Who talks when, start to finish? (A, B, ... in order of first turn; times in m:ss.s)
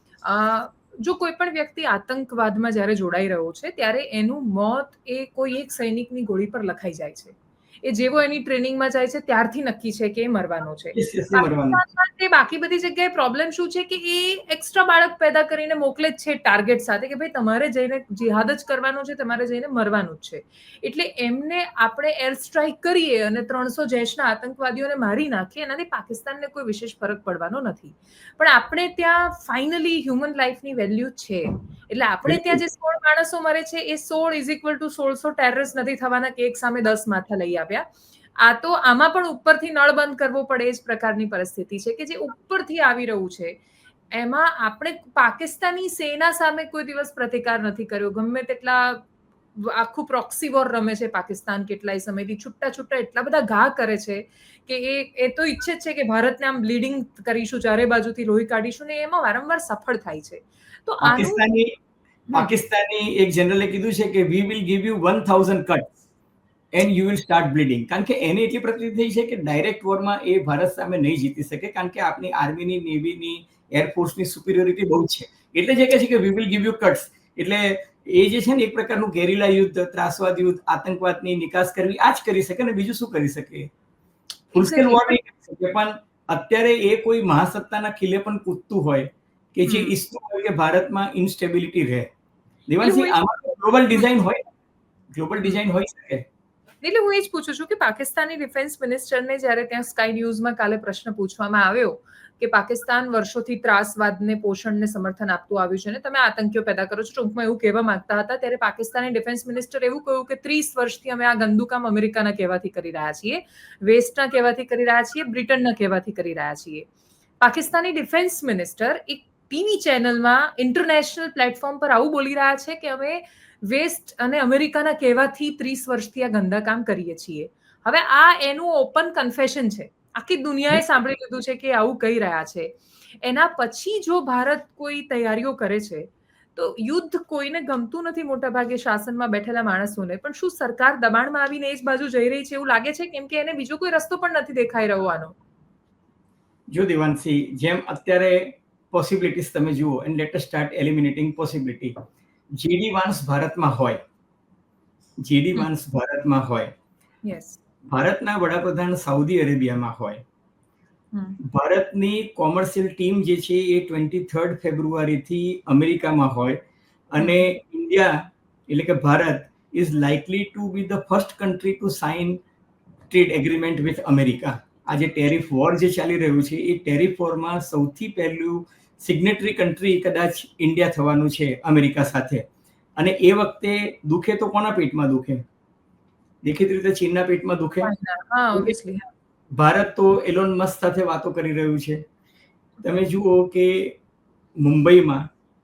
0:00.2-0:37.8 A
0:10.9-0:11.8 B
0:32.2-0:32.6 B
0:38.4-0:43.6 A
0:44.1-0:49.0 A
0:49.6-1:01.4 A
1:01.0-1:01.7 B
1:02.3-1:05.9 B
1:06.7-1:23.7 B
1:24.5-1:32.1 B
1:24.6-1:25.2 A
1:29.6-1:30.0 A
1:32.7-1:34.4 B
1:32.8-1:33.2 A
1:35.1-1:36.2 B
1:36.8-1:56.9 A
1:57.4-2:25.3 A
2:26.7-2:31.9 B
2:32.6-2:34.0 B
2:35.2-2:36.7 B
2:37.2-2:37.6 A
2:37.9-2:40.2 B
2:41.5-2:46.6 B
2:47.1-2:48.1 B
2:47.2-2:47.5 A
2:48.7-2:52.4 B
2:53.1-3:02.4 B
3:03.0-3:05.4 B
3:06.4-3:07.9 B
3:07.8-3:09.1 A
3:09.5-3:12.0 B
3:12.8-3:14.0 B
3:14.6-3:15.2 B